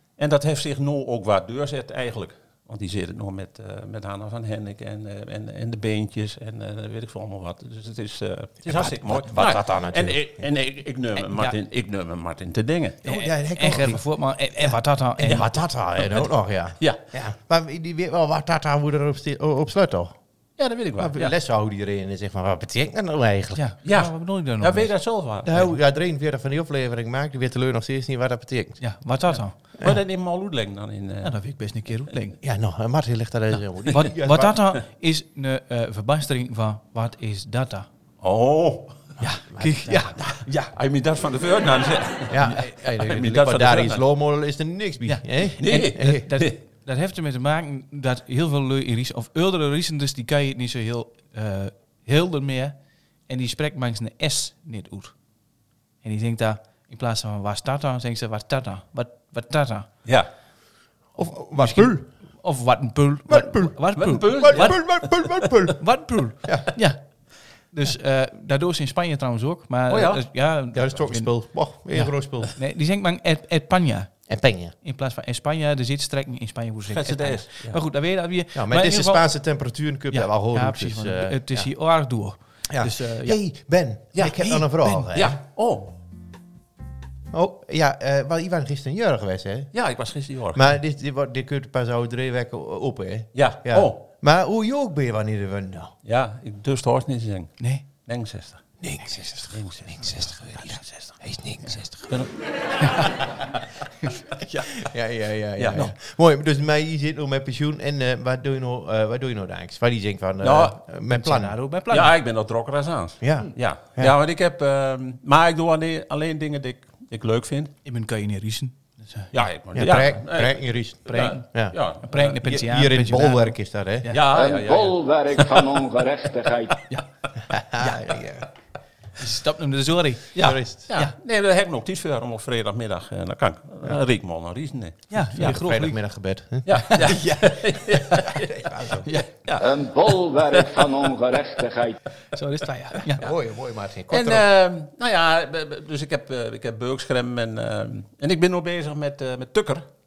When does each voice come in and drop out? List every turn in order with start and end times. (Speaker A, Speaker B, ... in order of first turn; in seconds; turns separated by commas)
Speaker A: 0.2-13.1, Speaker B: 8.6-10.3, Speaker C: 11.2-11.5, Speaker B: 13.0-14.0, Speaker C: 13.0-15.5, Speaker B: 14.6-20.1, Speaker A: 16.0-16.3, Speaker A: 20.6-21.3, Speaker B: 21.0-23.6, Speaker C: 23.5-24.9, Speaker A: 23.8-25.7, Speaker B: 25.4-28.8, Speaker C: 28.8-29.6, Speaker A: 29.8-31.3, Speaker C: 31.2-32.4, Speaker B: 32.4-34.6, Speaker C: 33.9-37.9, Speaker A: 38.2-39.1, Speaker B: 39.2-40.0, Speaker C: 39.2-40.7, Speaker A: 40.1-44.0, Speaker B: 42.3-46.3, Speaker C: 45.0-52.7, Speaker A: 45.6-46.5, Speaker C: 53.3-55.1, Speaker C: 56.0-59.9, Speaker B: 61.1-62.0, Speaker C: 61.5-64.8, Speaker B: 63.3-63.8, Speaker A: 64.0-64.9, Speaker B: 64.3-65.8, Speaker C: 65.8-67.0, Speaker B: 66.4-66.7, Speaker C: 67.7-74.3, Speaker A: 69.9-70.2, Speaker B: 70.7-72.5, Speaker B: 74.3-74.7, Speaker C: 74.8-79.3, Speaker A: 76.9-77.8, Speaker B: 78.5-81.7, Speaker C: 80.1-83.4, Speaker B: 82.7-85.4, Speaker C: 84.2-85.1, Speaker A: 85.1-85.9, Speaker B: 87.3-89.7, Speaker A: 89.7-90.6, Speaker B: 90.5-95.9, Speaker A: 93.3-94.0, Speaker A: 96.0-98.7, Speaker B: 98.8-102.1, Speaker C: 99.0-99.5, Speaker A: 99.5-100.4, Speaker C: 100.5-101.2, Speaker A: 102.0-102.3, Speaker C: 102.8-103.3, Speaker C: 104.0-104.8, Speaker B: 104.8-111.5, Speaker A: 105.6-105.9, Speaker A: 110.4-110.8, Speaker C: 111.1-112.1, Speaker A: 111.9-117.7, Speaker B: 113.2-114.1, Speaker C: 117.8-119.3, Speaker A: 119.3-122.4, Speaker B: 119.7-121.8, Speaker C: 121.1-124.2, Speaker B: 122.4-124.1, Speaker A: 124.1-125.7, Speaker D: 124.3-126.8, Speaker B: 127.5-128.5, Speaker C: 127.8-128.2, Speaker C: 129.2-130.3, Speaker A: 130.3-135.0, Speaker B: 130.4-130.8, Speaker C: 135.1-136.0, Speaker B: 135.3-136.7, Speaker A: 136.7-138.7, Speaker C: 136.7-138.2, Speaker B: 138.4-139.1, Speaker C: 139.0-139.3, Speaker A: 139.4-140.8, Speaker D: 139.6-142.0, Speaker C: 142.3-143.3, Speaker B: 143.2-144.4, Speaker A: 144.1-149.9